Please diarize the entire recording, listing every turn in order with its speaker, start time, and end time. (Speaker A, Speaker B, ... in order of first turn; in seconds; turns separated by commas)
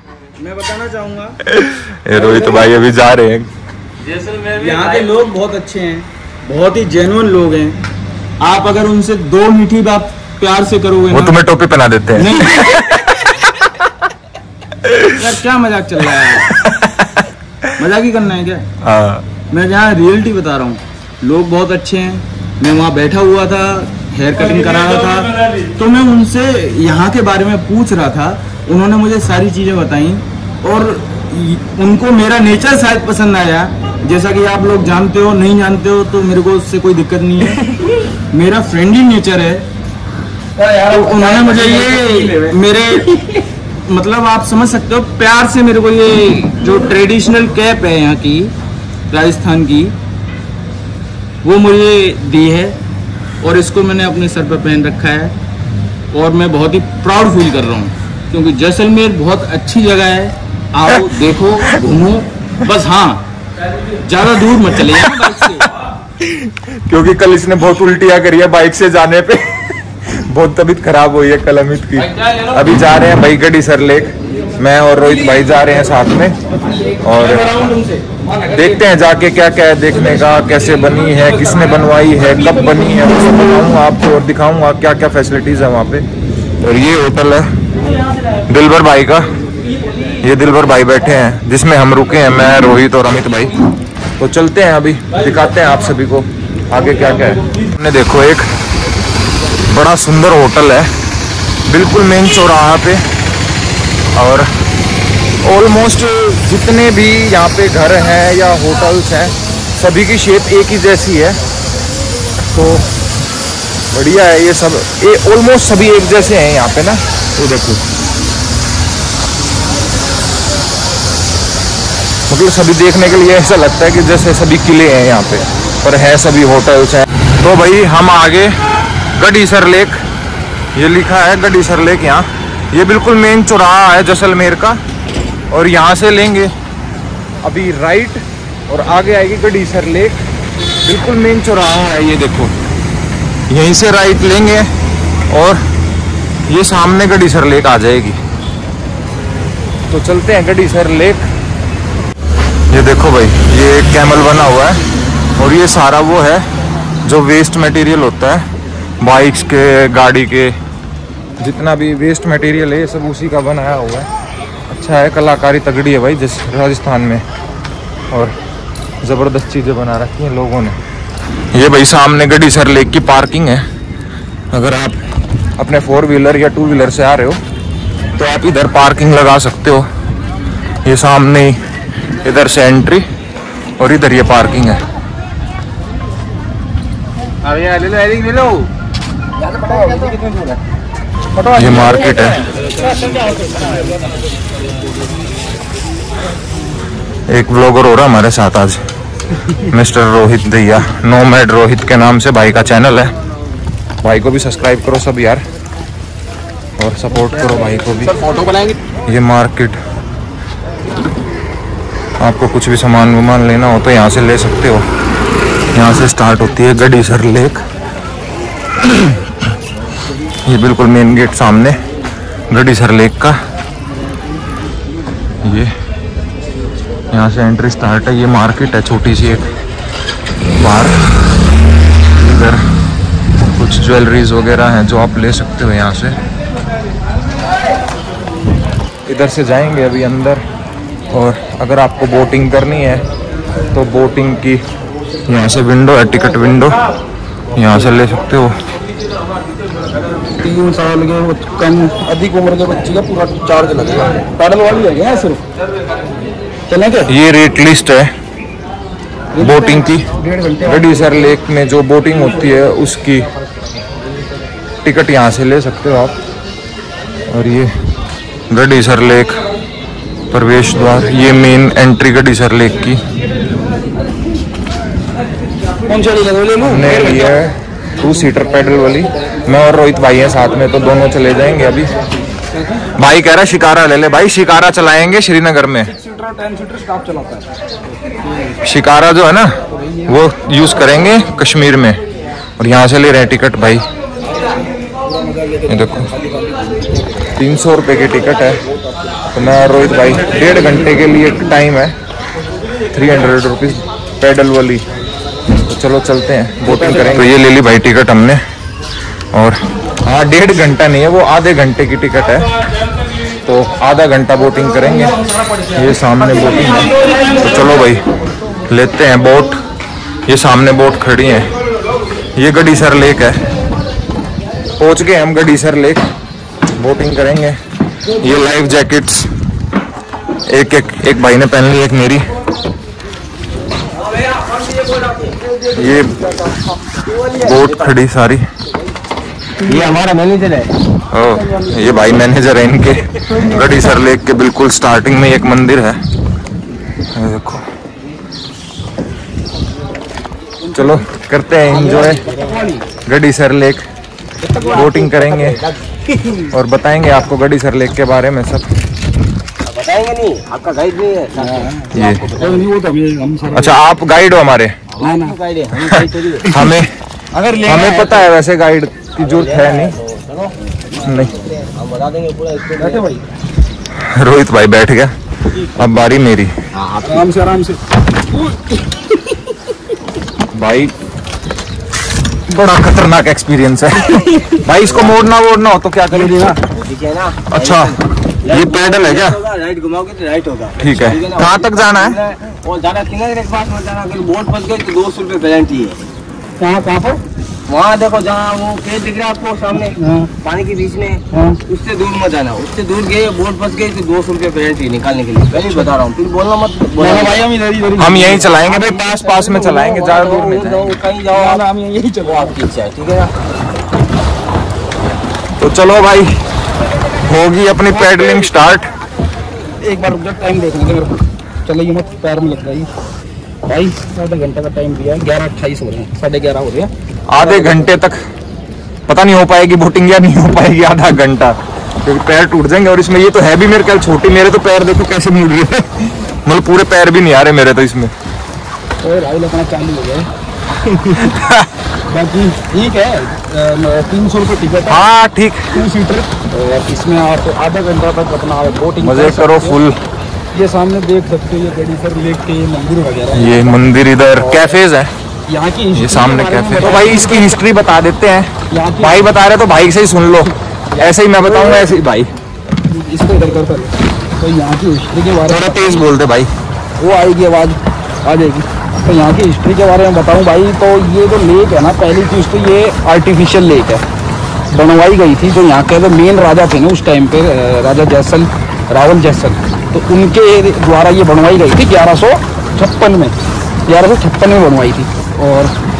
Speaker A: 0.4-1.4, Speaker B: 1.4-3.5, Speaker A: 2.1-2.6, Speaker C: 4.1-4.9, Speaker A: 4.5-7.8, Speaker A: 8.4-11.4, Speaker B: 11.1-13.7, Speaker A: 12.1-12.8, Speaker B: 14.8-15.3, Speaker A: 15.2-16.5, Speaker B: 16.3-17.2, Speaker A: 17.8-18.7, Speaker B: 18.8-19.2, Speaker A: 19.5-37.6, Speaker A: 38.3-39.6, Speaker D: 40.7-42.5, Speaker A: 40.9-48.5, Speaker C: 41.2-42.5, Speaker A: 49.1-49.9, Speaker A: 51.4-52.8, Speaker A: 53.4-55.3, Speaker A: 56.1-63.2, Speaker A: 64.0-65.7, Speaker B: 64.9-65.4, Speaker B: 66.2-76.4, Speaker B: 77.0-77.6, Speaker D: 77.2-78.3, Speaker B: 78.5-86.0, Speaker B: 86.6-87.5, Speaker B: 88.5-89.3, Speaker B: 90.2-93.5, Speaker B: 94.2-98.5, Speaker B: 99.7-100.9, Speaker B: 101.7-103.0, Speaker B: 104.2-104.5, Speaker B: 105.4-111.4, Speaker B: 112.4-112.8, Speaker B: 113.9-117.8, Speaker B: 122.3-128.5, Speaker B: 129.2-130.0, Speaker B: 130.7-134.8, Speaker B: 135.5-136.5, Speaker B: 137.4-140.2, Speaker B: 140.8-142.5, Speaker B: 143.5-144.7, Speaker B: 145.3-145.6, Speaker B: 146.5-148.2, Speaker B: 149.9-151.3, Speaker B: 152.7-154.8, Speaker B: 155.4-156.4, Speaker B: 157.0-158.4, Speaker B: 159.0-160.5, Speaker B: 161.4-164.1, Speaker B: 164.7-167.2, Speaker B: 169.0-170.8, Speaker B: 171.5-173.6, Speaker B: 174.5-175.0, Speaker B: 175.6-177.4, Speaker B: 178.2-179.8, Speaker B: 180.8-181.6, Speaker B: 182.2-183.0, Speaker B: 183.8-184.8, Speaker A: 187.5-188.6, Speaker C: 187.6-188.2, Speaker D: 189.6-190.1, Speaker D: 191.3-192.1, Speaker B: 191.5-192.5, Speaker B: 197.3-198.8, Speaker B: 199.6-203.1, Speaker B: 204.0-205.4, Speaker B: 206.8-208.1, Speaker D: 207.4-208.8, Speaker B: 209.0-209.8, Speaker B: 212.2-214.8, Speaker B: 215.7-217.6, Speaker B: 218.8-219.5, Speaker B: 220.5-221.8, Speaker B: 222.5-223.4, Speaker B: 225.4-225.7, Speaker B: 227.1-229.5, Speaker B: 230.6-230.9, Speaker B: 232.2-232.6, Speaker B: 233.5-236.2, Speaker B: 239.1-240.4, Speaker B: 241.1-243.0, Speaker B: 243.7-244.6, Speaker B: 245.2-246.8, Speaker B: 247.5-248.6, Speaker D: 250.4-255.4, Speaker D: 256.7-257.1, Speaker B: 257.1-258.1, Speaker D: 259.3-261.3, Speaker B: 259.4-260.1, Speaker B: 260.6-263.3, Speaker B: 264.8-266.2, Speaker B: 267.3-267.7, Speaker B: 268.5-269.4, Speaker B: 270.3-273.0, Speaker D: 275.9-277.4, Speaker B: 276.6-281.9, Speaker D: 282.5-282.9, Speaker B: 282.9-285.9, Speaker D: 285.8-287.5, Speaker B: 288.6-292.0, Speaker B: 292.6-293.8, Speaker B: 295.7-296.1, Speaker B: 297.4-298.6, Speaker B: 299.3-301.9, Speaker B: 302.9-304.8, Speaker B: 305.6-308.4, Speaker D: 306.6-307.4, Speaker B: 309.3-312.5, Speaker B: 313.4-315.2, Speaker B: 315.7-318.0, Speaker B: 318.7-319.6, Speaker B: 320.2-321.5, Speaker B: 322.4-323.4, Speaker B: 324.8-326.0, Speaker B: 326.8-327.6, Speaker B: 328.2-329.3, Speaker B: 330.5-332.3, Speaker B: 335.7-336.2, Speaker B: 337.3-338.4, Speaker D: 339.6-340.0, Speaker C: 339.7-340.7, Speaker B: 341.1-346.0, Speaker D: 341.2-342.3, Speaker D: 343.1-343.8, Speaker B: 347.1-347.6, Speaker D: 350.6-351.1, Speaker B: 350.7-352.2, Speaker D: 351.6-352.8, Speaker B: 353.1-353.8, Speaker D: 354.4-354.9, Speaker C: 354.6-356.5, Speaker B: 354.7-355.6, Speaker B: 356.5-358.6, Speaker C: 359.6-362.6, Speaker D: 361.3-363.8, Speaker B: 361.9-362.3, Speaker B: 363.5-364.8, Speaker C: 364.9-366.6, Speaker D: 365.0-365.4, Speaker B: 365.9-366.9, Speaker D: 367.3-368.2, Speaker B: 367.6-370.0, Speaker C: 369.1-373.0, Speaker B: 371.0-371.3, Speaker D: 372.8-373.2, Speaker B: 373.9-375.1, Speaker B: 375.8-376.5, Speaker C: 376.7-377.3, Speaker D: 377.1-377.8, Speaker B: 380.5-380.9, Speaker B: 382.5-386.6, Speaker C: 384.8-385.2, Speaker D: 386.1-386.6, Speaker C: 386.6-396.0, Speaker B: 387.5-389.4, Speaker B: 390.8-392.2, Speaker D: 396.6-397.2, Speaker C: 397.7-407.4, Speaker D: 399.8-400.3, Speaker D: 401.3-401.6, Speaker D: 407.0-408.5, Speaker B: 408.0-411.0, Speaker C: 408.6-411.6, Speaker D: 411.3-412.6, Speaker C: 412.2-413.3, Speaker B: 415.6-416.3, Speaker B: 417.2-418.9, Speaker D: 419.8-422.9, Speaker D: 423.6-427.9, Speaker B: 427.3-428.2, Speaker B: 429.1-438.1, Speaker D: 439.0-440.3, Speaker B: 441.1-441.7, Speaker D: 442.1-445.0, Speaker B: 444.9-445.7, Speaker D: 445.7-449.8, Speaker B: 449.0-450.0, Speaker D: 450.5-453.8, Speaker B: 453.3-455.1, Speaker D: 454.4-454.8, Speaker D: 455.5-457.5, Speaker B: 455.9-462.3, Speaker D: 458.7-459.2, Speaker D: 460.9-461.9, Speaker D: 462.8-466.1, Speaker B: 465.5-466.5, Speaker D: 467.0-474.0, Speaker D: 474.7-483.3, Speaker D: 483.9-485.7